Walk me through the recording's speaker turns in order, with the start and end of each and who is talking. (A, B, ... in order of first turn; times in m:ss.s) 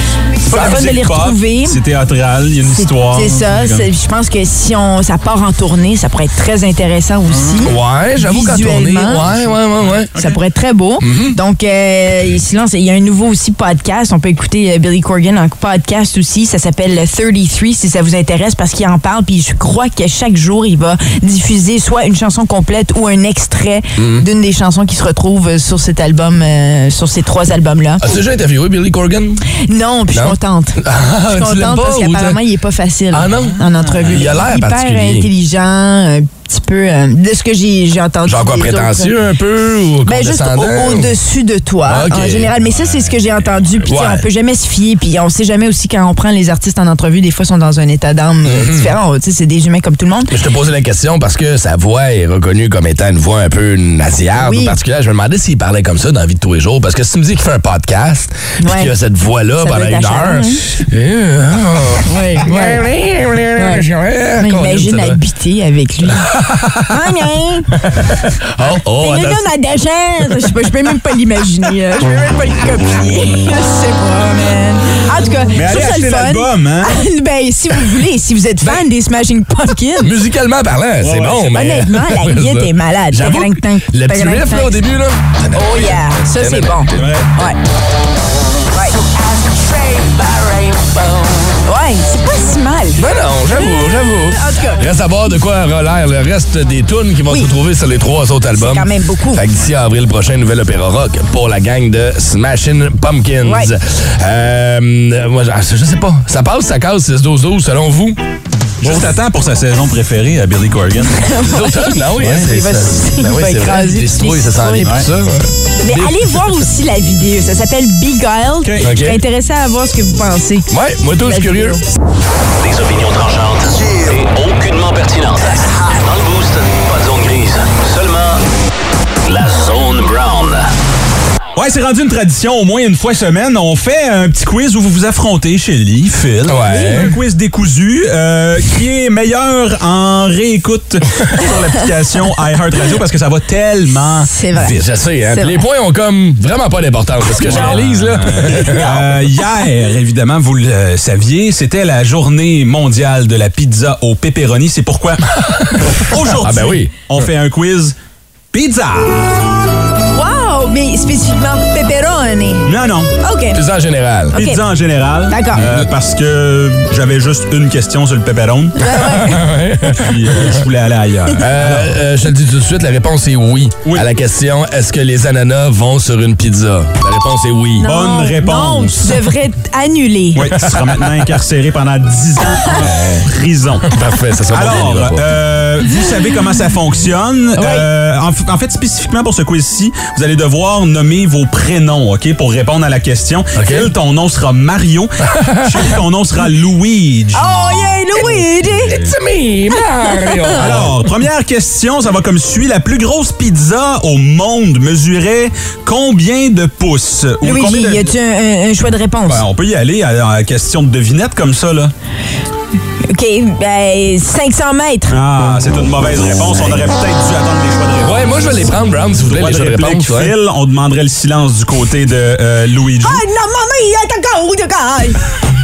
0:00.4-0:01.8 A
0:00.4-0:03.9 B
0:02.7-0:09.2 A
0:07.4-0:07.6 B
0:07.6-0:10.1 C
0:09.2-0:10.4 B
0:10.2-0:28.0 A
0:11.0-0:11.4 C
0:24.0-0:24.2 C
0:28.0-0:29.4 C
0:29.7-0:39.1 A
0:30.1-0:32.4 C
0:33.1-0:35.3 C
0:33.4-0:34.3 B
0:38.2-0:41.2 C
0:40.1-0:50.3 A
0:41.9-0:42.5 C
0:42.7-0:43.3 B
0:43.8-0:44.2 C
0:48.4-0:48.9 C
0:50.3-1:05.2 C
0:54.4-0:54.8 A
0:58.6-0:58.9 A
0:59.6-1:00.7 A
1:02.1-1:02.8 A
1:03.6-1:03.9 A
1:04.4-1:07.8 A
1:06.3-1:06.9 C
1:07.8-1:09.5 C
1:09.0-1:20.1 A
1:15.5-1:17.0 B
1:20.0-1:27.2 C
1:21.0-1:21.5 B
1:21.5-1:24.8 A
1:25.5-1:27.6 A
1:26.9-1:27.3 B
1:28.8-1:31.7 D
1:31.7-1:34.9 A
1:33.0-1:48.2 C
1:38.5-1:39.4 A
1:43.4-1:43.7 A
1:48.8-1:51.2 B
1:48.8-1:49.2 C
1:51.1-1:55.0 A
1:51.4-1:56.4 C
1:52.2-1:52.5 B
1:55.8-2:00.7 A
1:58.6-1:58.9 B
1:58.8-1:59.2 C
2:00.7-2:01.8 C
2:01.2-2:01.8 A
2:02.6-2:08.4 E
2:09.2-2:10.7 E
2:11.6-2:24.3 B
2:16.5-2:17.2 C
2:16.7-2:17.1 A
2:24.2-2:25.6 A
2:24.5-2:29.0 C
2:27.4-2:38.0 B
2:27.4-2:27.8 A
2:28.5-2:29.0 A
2:35.4-2:37.0 C
2:38.5-2:39.4 B
2:40.1-2:42.7 A
2:42.7-2:43.1 B
2:43.2-2:43.6 A
2:43.5-2:44.4 C
2:44.3-2:44.6 A
2:44.3-2:48.8 B
2:45.3-2:45.6 A
2:48.8-2:49.5 A
2:48.9-2:50.5 C
2:50.0-2:52.0 B
2:51.4-2:57.9 C
2:57.8-3:00.4 A
2:57.8-2:59.2 B
3:00.4-3:03.9 B
3:00.6-3:01.0 C
3:02.8-3:03.3 C
3:03.8-3:05.3 C
3:04.5-3:17.6 B
3:07.6-3:07.9 A
3:13.6-3:13.9 C
3:15.3-3:15.9 C
3:17.4-3:19.0 A
3:18.2-3:21.0 C
3:18.6-3:19.2 B
3:20.1-3:20.6 A
3:20.6-3:28.1 B
3:27.4-3:29.4 A
3:29.3-3:31.9 B
3:33.1-3:35.2 A
3:35.1-3:38.6 B
3:38.0-3:40.4 C
3:39.3-3:43.2 B
3:43.0-3:45.2 A